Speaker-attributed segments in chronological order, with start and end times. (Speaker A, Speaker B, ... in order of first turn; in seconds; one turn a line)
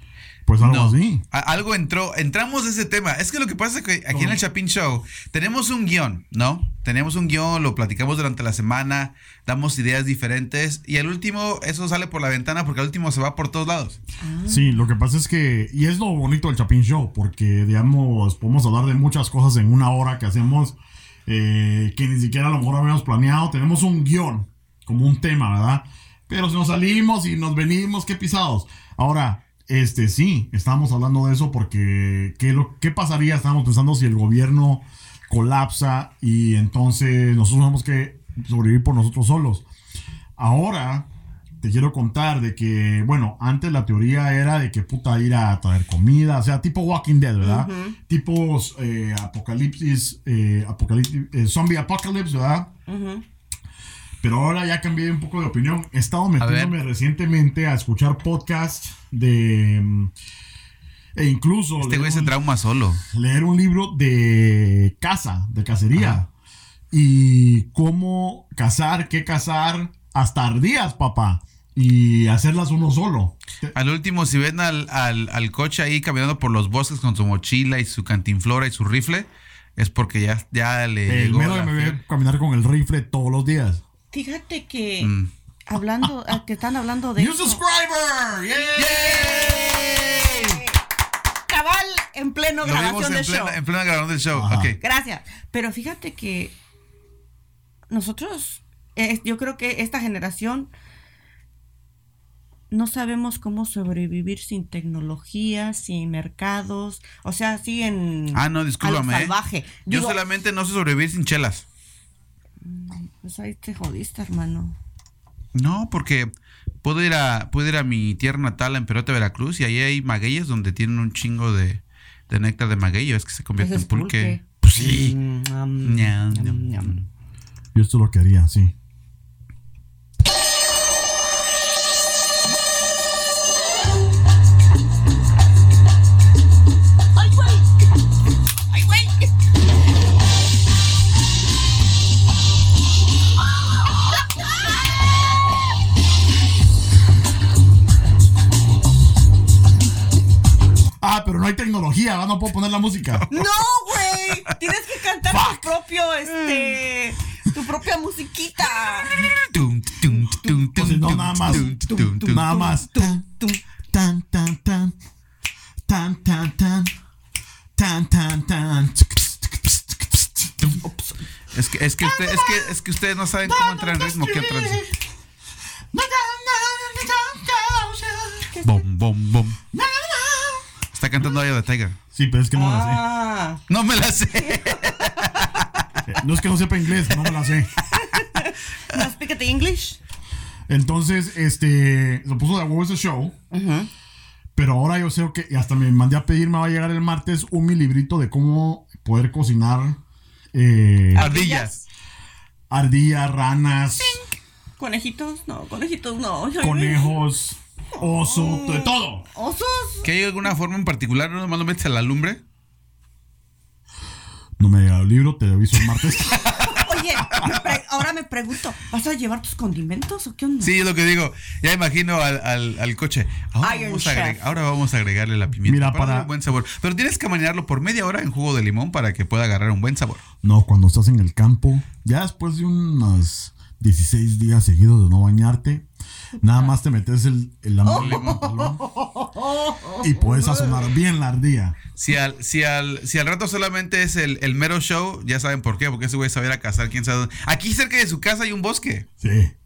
Speaker A: 0.5-1.2
Speaker B: 0.6-14.0
Speaker A: 4.1-4.4
Speaker C: 14.2-14.8
Speaker A: 14.5-39.6
Speaker A: 40.4-41.1
Speaker A: 41.6-52.7
Speaker C: 47.4-48.0
Speaker C: 52.9-53.2
Speaker A: 54.2-60.1
Speaker B: 56.4-56.8
Speaker A: 61.1-62.3
Speaker B: 61.8-63.0
Speaker A: 63.1-66.3
Speaker B: 65.9-66.2
Speaker A: 66.9-73.7
Speaker B: 73.7-82.0
Speaker A: 81.1-83.8
Speaker C: 84.1-85.1
Speaker B: 85.0-85.3
Speaker C: 85.7-87.6
Speaker A: 87.2-89.4
Speaker C: 88.8-90.8
Speaker B: 88.8-90.4
Speaker C: 91.5-93.6
Speaker B: 92.6-94.8
Speaker A: 94.3-94.7
Speaker C: 94.8-96.5
Speaker C: 97.9-100.7
Speaker C: 102.7-110.2
Speaker B: 108.3-109.3
Speaker B: 109.8-111.6
Speaker C: 112.6-114.8
Speaker B: 115.5-116.3
Speaker B: 116.8-125.1
Speaker C: 123.6-127.0
Speaker B: 125.8-127.0
Speaker A: 127.7-128.7
Speaker A: 151.0-153.2
Speaker C: 153.3-159.2
Speaker B: 159.2-162.5
Speaker A: 160.7-163.2
Speaker C: 161.4-163.6
Speaker A: 163.9-164.9
Speaker A: 165.9-166.9
Speaker A: 167.8-170.7
Speaker C: 170.8-171.2
Speaker B: 171.5-174.8
Speaker A: 172.1-172.6
Speaker A: 173.4-174.8
Speaker A: 175.9-178.5
Speaker C: 178.5-178.8
Speaker B: 178.6-179.6
Speaker A: 179.7-180.6
Speaker B: 180.9-182.0
Speaker A: 182.1-183.0
Speaker C: 182.5-183.6
Speaker B: 183.7-185.5
Speaker C: 184.3-185.6
Speaker A: 186.1-187.7
Speaker C: 187.9-190.0
Speaker A: 190.7-193.3
Speaker C: 193.5-193.9
Speaker A: 194.5-200.0
Speaker A: 200.5-201.3
Speaker C: 201.1-201.8
Speaker B: 201.2-201.8
Speaker A: 202.7-204.2
Speaker C: 204.8-207.2
Speaker A: 206.6-209.2
Speaker C: 208.2-210.1
Speaker B: 210.0-212.4
Speaker A: 214.6-216.7
Speaker C: 216.7-220.7
Speaker B: 220.6-230.2
Speaker C: 223.6-224.4
Speaker A: 225.6-226.3
Speaker A: 230.4-235.9
Speaker A: 236.4-238.8
Speaker C: 237.9-240.8
Speaker B: 237.9-238.7
Speaker A: 240.0-241.8
Speaker B: 241.9-249.1
Speaker A: 249.2-249.5